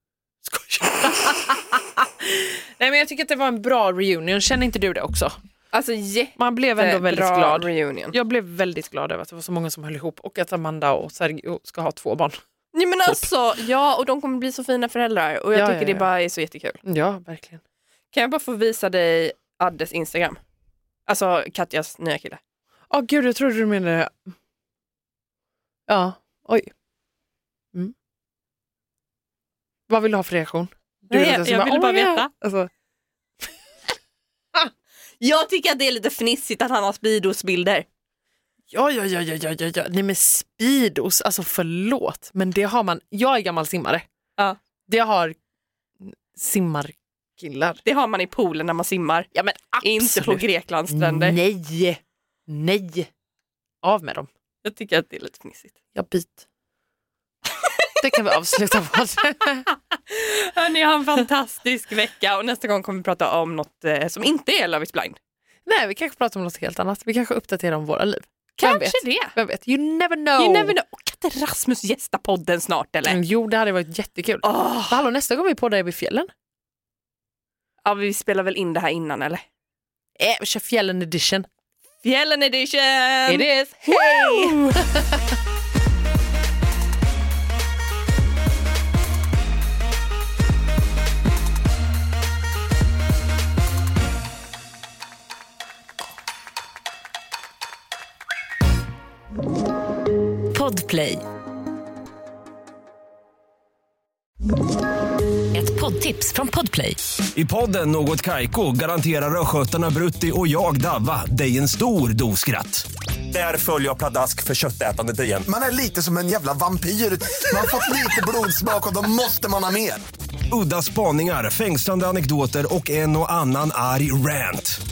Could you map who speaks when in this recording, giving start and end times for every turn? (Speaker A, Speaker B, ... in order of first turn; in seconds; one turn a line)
Speaker A: 0.4-5.3
Speaker B: 5.7-8.2
Speaker A: 6.3-12.4
Speaker B: 12.7-16.8
Speaker A: 15.5-16.1
Speaker A: 16.8-17.6
Speaker B: 18.1-20.4
Speaker B: 21.1-22.4
Speaker A: 22.9-24.3
Speaker A: 25.9-26.7
Speaker A: 29.9-32.7
Speaker B: 31.1-32.3
Speaker B: 35.2-37.9
Speaker A: 38.7-44.0
Speaker A: 44.9-45.4
Speaker A: 46.0-47.8
Speaker B: 47.8-49.3
Speaker A: 49.3-53.1
Speaker B: 49.8-51.4
Speaker A: 53.8-54.3
Speaker B: 54.6-55.8
Speaker A: 55.9-56.4
Speaker B: 57.6-57.9
Speaker A: 58.0-59.6
Speaker B: 60.1-65.2
Speaker A: 65.7-70.7
Speaker B: 68.6-69.3
Speaker B: 70.4-73.2
Speaker A: 73.1-76.3
Speaker B: 74.4-75.0
Speaker B: 77.8-79.4
Speaker A: 80.2-81.5
Speaker B: 82.0-84.6
Speaker A: 83.3-85.4
Speaker C: 100.5-101.2
Speaker C: 105.5-107.0
Speaker D: 107.3-115.4
Speaker E: 115.5-120.0
Speaker D: 120.5-124.8